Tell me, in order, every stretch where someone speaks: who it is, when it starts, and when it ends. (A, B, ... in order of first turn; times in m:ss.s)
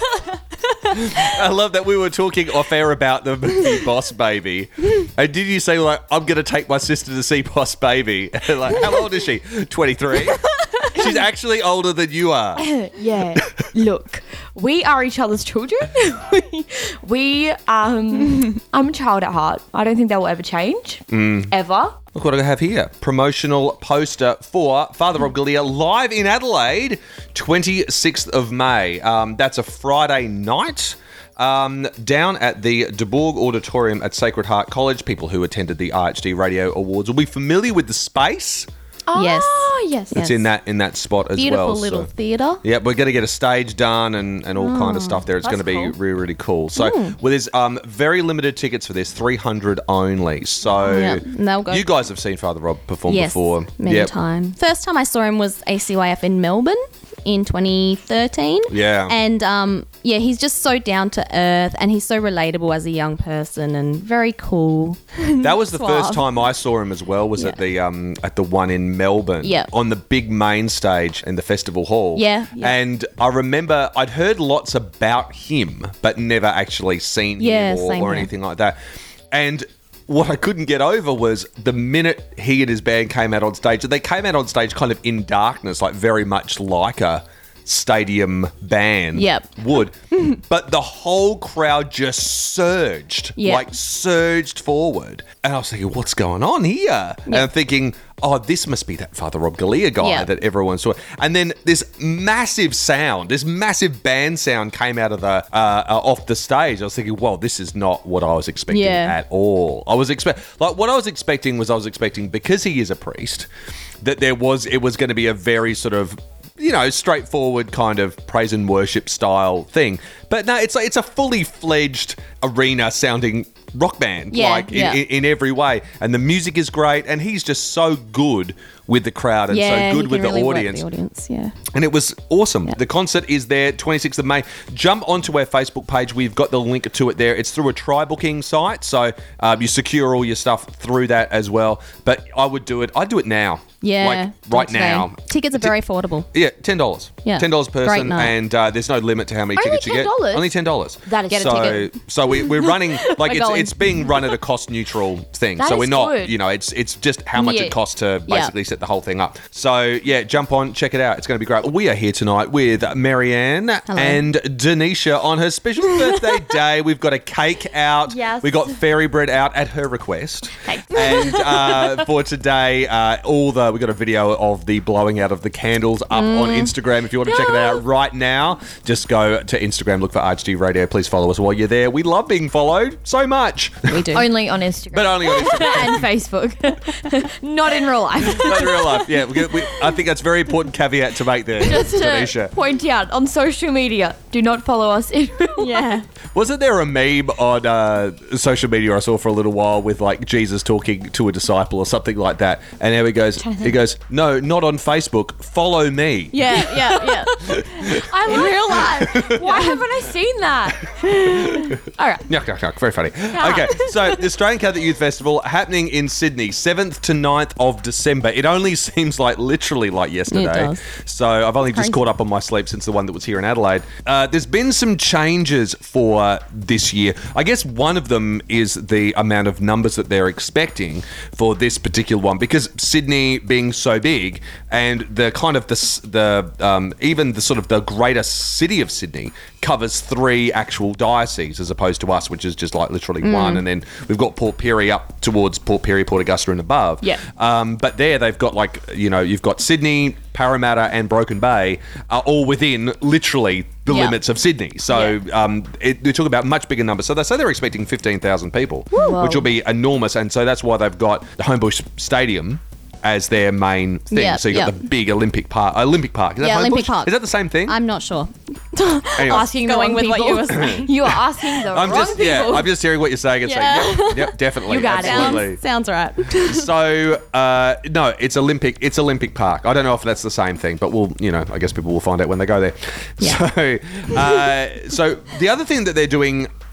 0:01.0-0:12.7 A
0:10.8-0:11.2 B
0:12.6-0:22.0 B
0:21.1-0:21.5 A
0:22.1-0:38.7 A
0:39.1-0:40.2 B
0:39.1-0:40.4 C
0:40.1-0:42.1 A
0:41.3-0:42.6 C
0:42.6-0:54.1 A
0:44.6-0:45.3 C
0:45.4-0:45.9 B
0:46.8-0:47.2 C
0:50.7-0:51.9 C
0:53.1-1:06.3 C
0:58.7-0:59.1 A
1:05.4-1:18.8 A
1:07.4-1:07.6 C
1:09.4-1:09.7 C
1:12.1-1:12.8 C
1:17.4-1:18.3 C
1:19.3-1:53.5 A
1:29.1-1:29.5 C
1:33.4-1:33.7 C
1:40.0-1:40.3 C
1:48.7-1:49.2 C
1:54.0-2:10.8 A
2:04.3-2:05.0 C
2:09.5-2:11.6 C
2:11.7-2:25.7 A
2:23.8-2:26.3 C
2:26.3-3:04.2 A
2:27.2-2:28.3 C
2:29.5-2:30.5 B
2:31.0-2:31.9 B
2:31.3-2:34.3 C
2:35.6-2:36.3 B
2:37.3-2:37.8 B
2:38.3-2:38.5 C
2:43.9-2:44.2 C
2:45.9-2:46.3 C
2:48.1-2:48.8 B
2:50.6-2:52.0 B
2:56.1-2:56.7 C
2:57.2-2:57.8 B
3:03.9-3:04.3 C
3:04.1-3:10.0 B
3:04.9-3:06.1 A
3:08.2-3:12.5 A
3:11.6-3:15.9 B
3:15.5-3:16.0 C
3:16.3-3:29.6 A
3:23.4-3:23.8 B
3:26.3-3:29.8 C
3:27.9-3:32.3 B
3:31.3-3:31.7 C
3:31.3-4:27.8 A
3:33.3-3:34.2 B
3:40.3-3:40.8 C
3:41.7-3:42.0 C
4:03.2-4:03.6 C
4:13.9-4:14.2 C
4:18.9-4:19.5 B
4:24.1-4:24.8 C
4:26.4-4:31.1 C
4:29.1-4:29.5 A
4:29.2-4:32.7 B
4:30.6-4:31.1 A
4:31.7-4:35.6 A
4:31.8-4:32.7 C
4:33.4-4:36.7 C
4:34.6-4:35.5 B
4:36.3-4:46.5 A
4:43.2-4:43.5 C
4:44.1-4:44.4 C